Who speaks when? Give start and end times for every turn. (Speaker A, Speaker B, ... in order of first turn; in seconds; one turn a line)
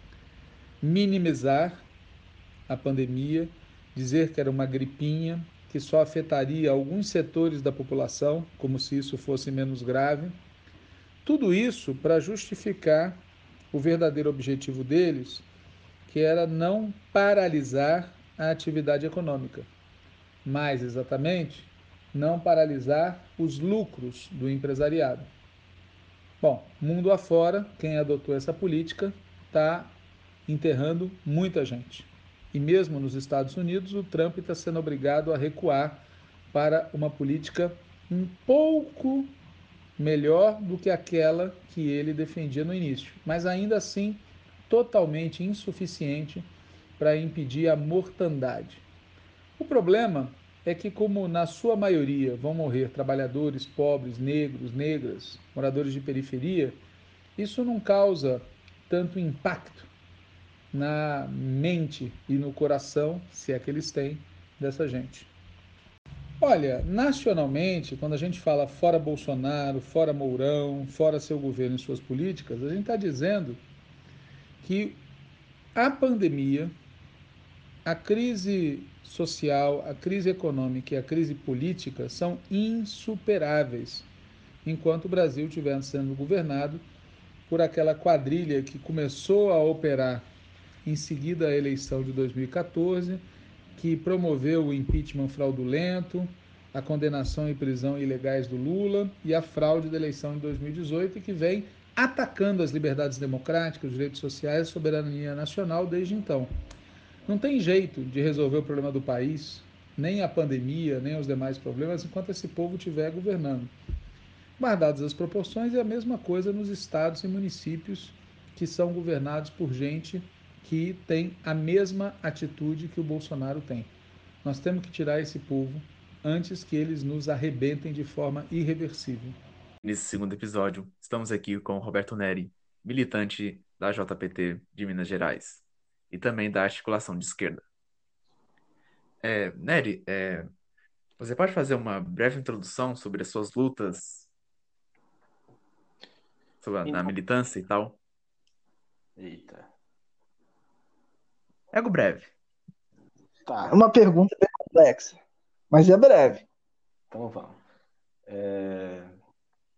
Speaker A: 0.8-1.9
Speaker A: 2.7-10.4
Speaker A: 11.2-15.5
Speaker A: 16.1-19.7
Speaker A: 20.4-25.3
Speaker A: 26.4-39.3
Speaker A: 40.0-46.5
Speaker A: 47.0-48.9
Speaker A: 49.6-56.8
Speaker A: 57.4-59.9
Speaker A: 60.7-65.3
Speaker A: 66.4-73.6
Speaker A: 74.6-75.0
Speaker A: 75.8-76.8
Speaker A: 77.8-84.1
Speaker A: 84.7-86.8
Speaker A: 87.5-90.3
Speaker A: 90.8-93.2
Speaker A: 93.8-106.5
Speaker A: 107.3-113.7
Speaker A: 114.6-123.9
Speaker A: 124.4-129.4
Speaker B: 129.8-137.6
Speaker B: 139.2-140.5
Speaker B: 141.2-144.3
Speaker B: 146.6-148.0
Speaker C: 146.8-147.1
Speaker C: 149.2-149.7
Speaker B: 151.7-152.3
Speaker C: 153.5-153.8
Speaker D: 153.7-155.2
Speaker D: 155.7-156.4
Speaker C: 157.1-157.6
Speaker C: 158.3-159.2